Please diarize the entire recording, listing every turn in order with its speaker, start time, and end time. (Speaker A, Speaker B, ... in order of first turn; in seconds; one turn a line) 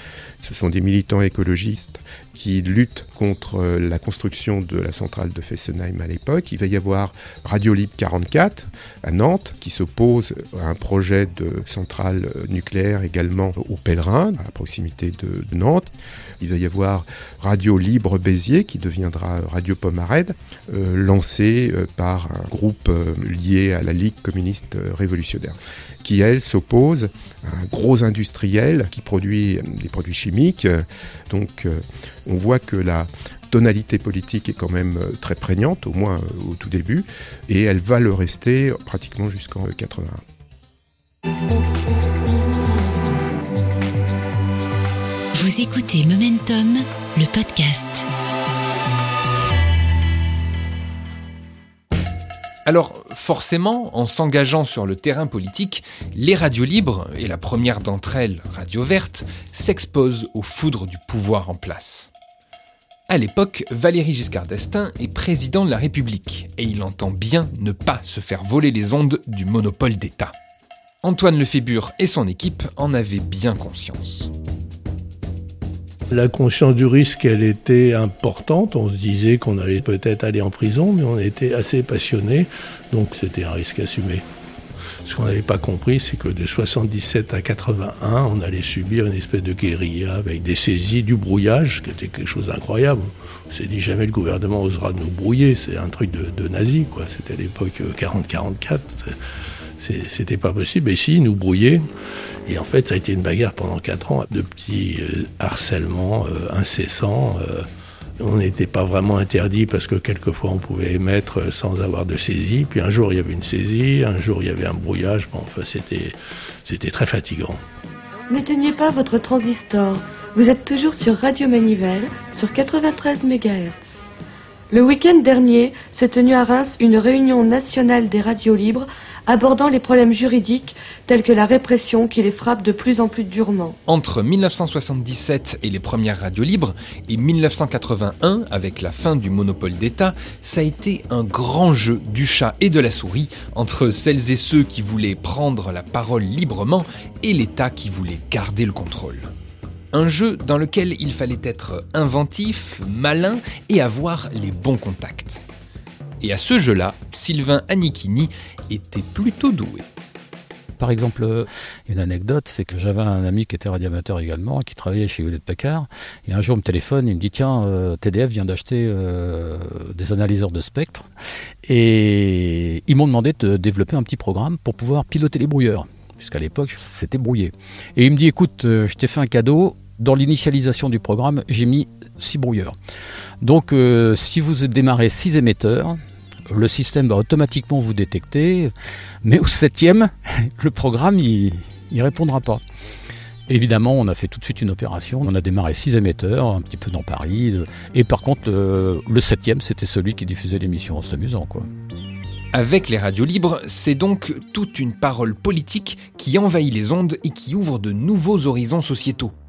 Speaker A: 0.4-40.2
Speaker B: 45.3-48.0
Speaker C: 52.6-62.1
Speaker C: 63.1-70.3
Speaker C: 71.0-74.3
Speaker D: 76.1-84.2
Speaker D: 85.0-99.1
Speaker D: 99.8-101.8
Speaker D: 102.5-107.7
Speaker D: 108.2-117.6
Speaker E: 118.3-123.8
Speaker E: 124.7-133.8
Speaker C: 133.9-149.3
Speaker C: 149.9-155.4
Speaker C: 156.2-159.8
Speaker F: 160.8-171.1
Speaker F: 171.6-182.8
Speaker F: 183.4-188.7
Speaker F: 189.2-192.6
Speaker F: 193.5-201.7
Speaker C: 202.5-209.3